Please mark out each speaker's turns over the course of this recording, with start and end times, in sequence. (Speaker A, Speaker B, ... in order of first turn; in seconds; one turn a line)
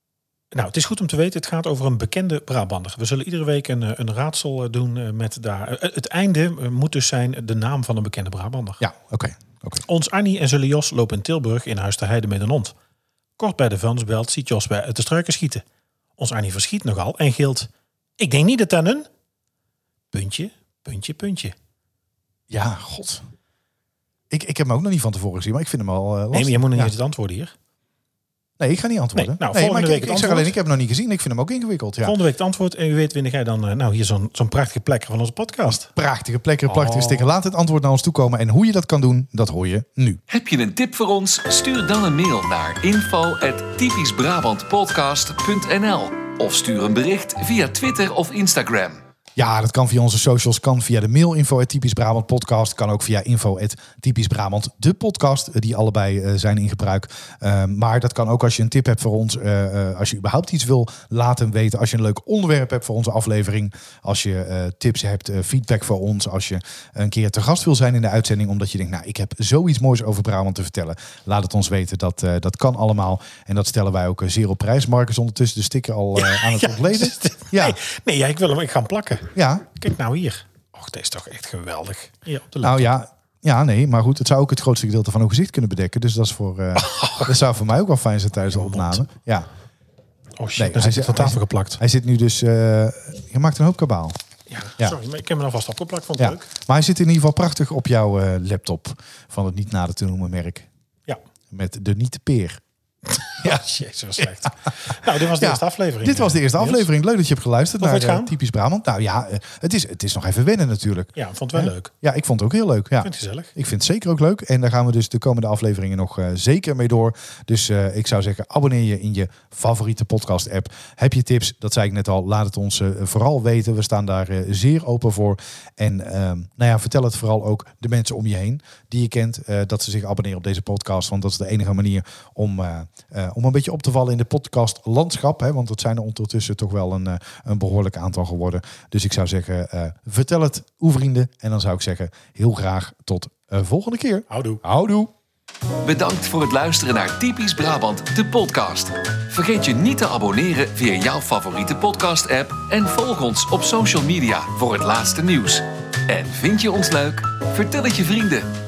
Speaker A: 0.5-8.8
Speaker B: 8.8-9.8
Speaker A: 9.8-12.8
Speaker A: 13.4-15.6
Speaker A: 16.2-19.1
Speaker A: 20.1-21.6
Speaker B: 22.5-23.3
Speaker B: 24.3-26.9
Speaker A: 26.3-27.5
Speaker B: 28.6-32.2
Speaker A: 29.1-30.6
Speaker A: 32.0-35.9
Speaker B: 35.7-40.2
Speaker A: 36.7-37.3
Speaker C: 40.3-49.0
Speaker B: 49.4-77.8
Speaker A: 76.2-82.9
Speaker B: 79.3-79.7
Speaker B: 82.6-89.5
Speaker A: 86.8-87.4
Speaker A: 88.5-89.1
Speaker A: 90.4-91.8
Speaker B: 90.6-94.2
Speaker A: 94.5-96.5
Speaker B: 96.2-100.7
Speaker B: 101.5-102.6
Speaker A: 103.1-106.9
Speaker B: 103.4-104.5
Speaker B: 105.2-145.1
Speaker A: 107.8-108.3
Speaker A: 111.2-111.9
Speaker A: 113.0-113.5
Speaker A: 144.3-144.6
Speaker C: 145.8-158.5